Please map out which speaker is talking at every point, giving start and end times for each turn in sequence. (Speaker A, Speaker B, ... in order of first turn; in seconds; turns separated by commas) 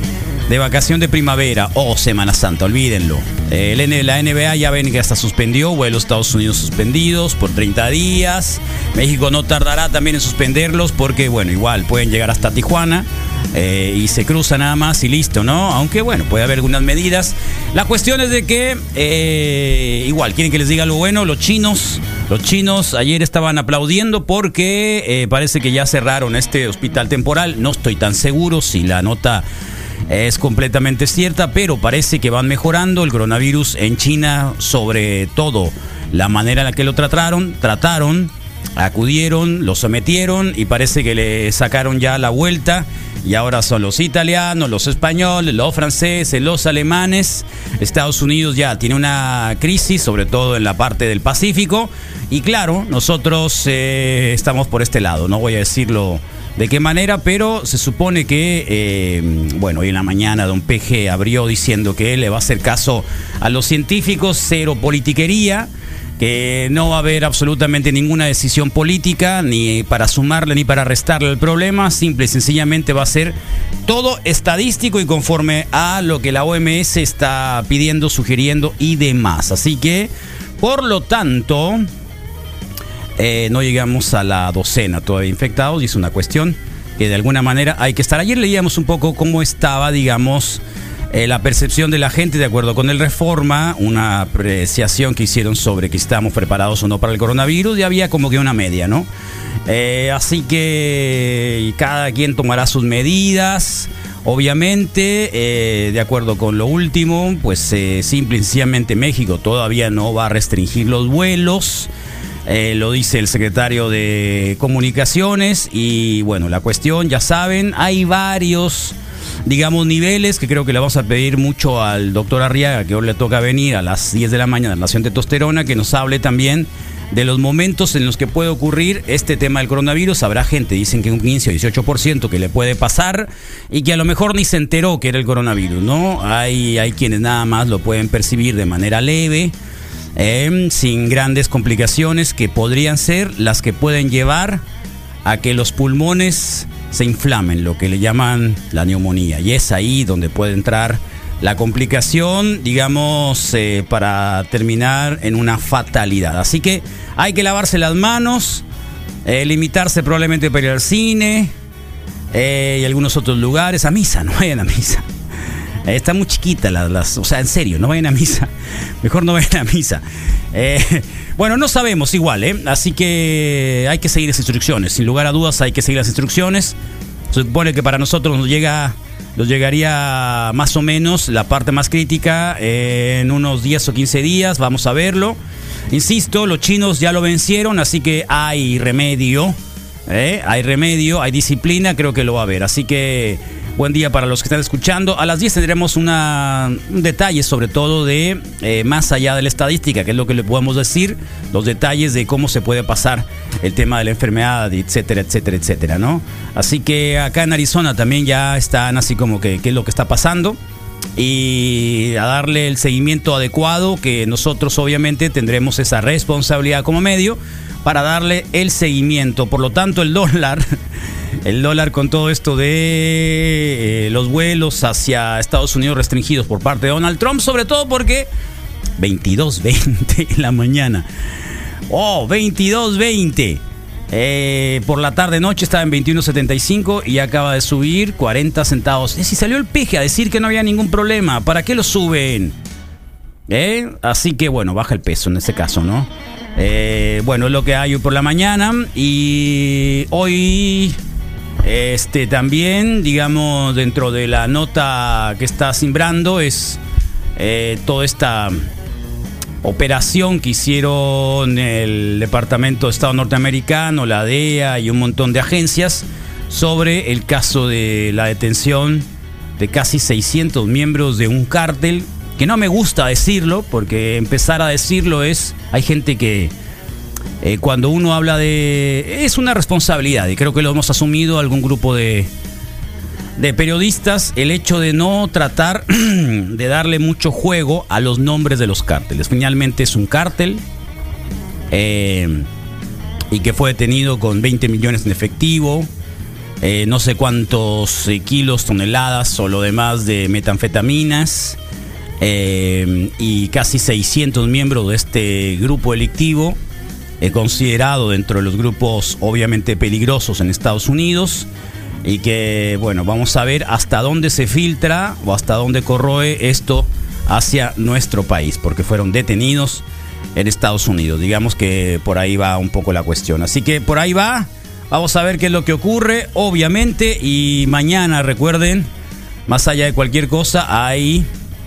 Speaker A: 0.5-29.4, Speaker A: 30.1-81.9, Speaker A: 83.2-99.1, Speaker A: 99.7-111.9, Speaker A: 112.5-139.5, Speaker A: 140.2-144.6, Speaker A: 145.2-158.6, Speaker A: 159.2-161.5, Speaker A: 162.3-165.0, Speaker A: 165.8-168.5, Speaker A: 169.0-176.7, Speaker A: 177.3-185.4, Speaker A: 185.9-189.5, Speaker A: 190.1-210.6, Speaker A: 211.2-220.6, Speaker A: 221.4-228.3, Speaker A: 229.0-231.1, Speaker A: 231.9-242.5, Speaker A: 243.5-251.0, Speaker A: 251.6-256.8, Speaker A: 257.4-258.6, Speaker A: 259.6-269.1, Speaker A: 269.6-276.5, Speaker A: 277.4-282.3, Speaker A: 283.4-290.6, Speaker A: 291.7-292.5, Speaker A: 293.3-295.9, Speaker A: 296.6-301.6, Speaker A: 302.2-306.6, Speaker A: 307.2-311.5, Speaker A: 312.0-319.8, Speaker A: 320.3-328.9, Speaker A: 329.5-331.3